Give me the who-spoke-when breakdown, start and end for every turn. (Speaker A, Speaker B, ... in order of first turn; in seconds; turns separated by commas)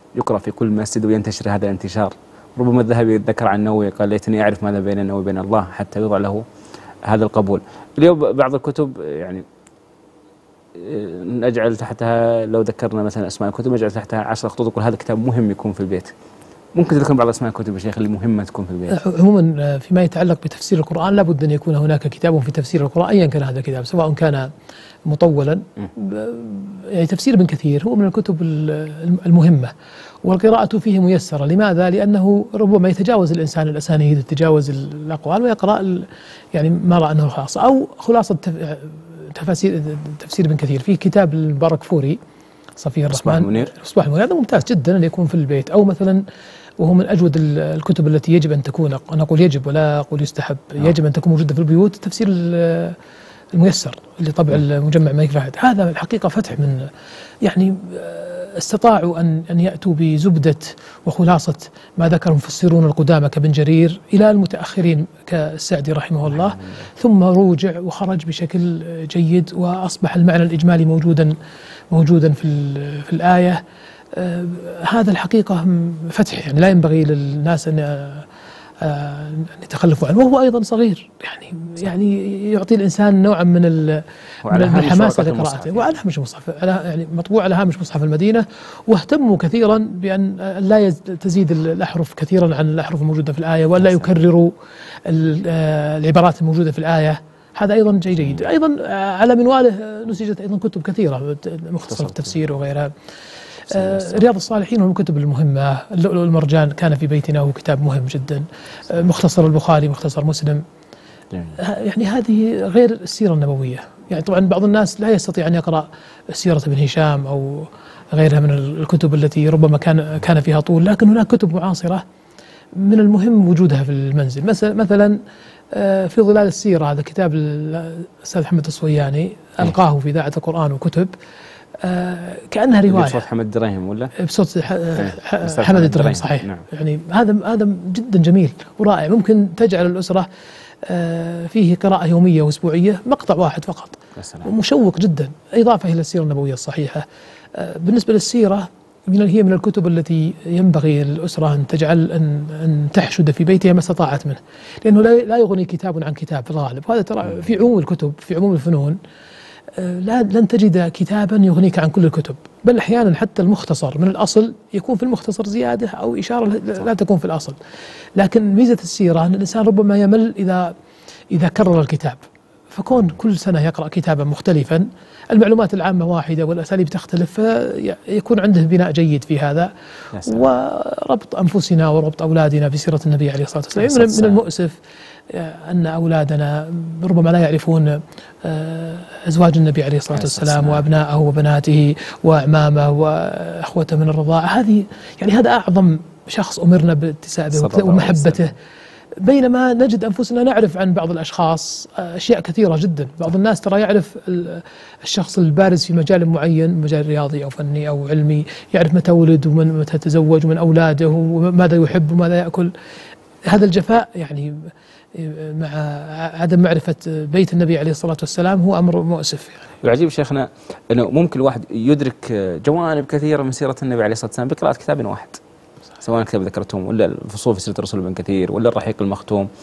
Speaker A: 0.2-6.5, Speaker A: 7.1-9.4, Speaker A: 10.8-16.1, Speaker A: 16.8-19.0, Speaker B: 18.9-24.5, Speaker B: 25.1-29.7, Speaker B: 30.2-42.2, Speaker B: 42.8-46.2, Speaker A: 43.1-43.7, Speaker B: 46.8-53.0, Speaker B: 53.5-56.9, Speaker B: 57.4-71.3, Speaker A: 66.3-66.9, Speaker B: 71.9-73.6, Speaker B: 74.1-78.3, Speaker B: 78.8-94.5, Speaker A: 84.4-86.0, Speaker A: 93.8-94.1, Speaker B: 95.1-102.9, Speaker A: 101.9-102.4, Speaker B: 103.7-110.6, Speaker A: 103.7-104.2, Speaker B: 111.6-122.0, Speaker B: 122.8-125.2, Speaker B: 125.7-131.1, Speaker B: 131.8-133.2, Speaker A: 132.9-134.1, Speaker B: 134.2-140.3, Speaker A: 134.9-136.7, Speaker B: 140.8-159.0, Speaker A: 144.2-144.5, Speaker B: 159.8-167.6, Speaker B: 168.2-170.7, Speaker B: 171.3-172.2, Speaker B: 172.7-179.7, Speaker A: 180.1-180.5, Speaker B: 180.2-184.8, Speaker A: 183.8-184.4, Speaker B: 185.3-198.6, Speaker A: 190.1-190.9, Speaker A: 197.5-198.5, Speaker B: 199.2-212.7, Speaker B: 213.5-219.7, Speaker A: 219.8-225.4, Speaker A: 226.0-229.5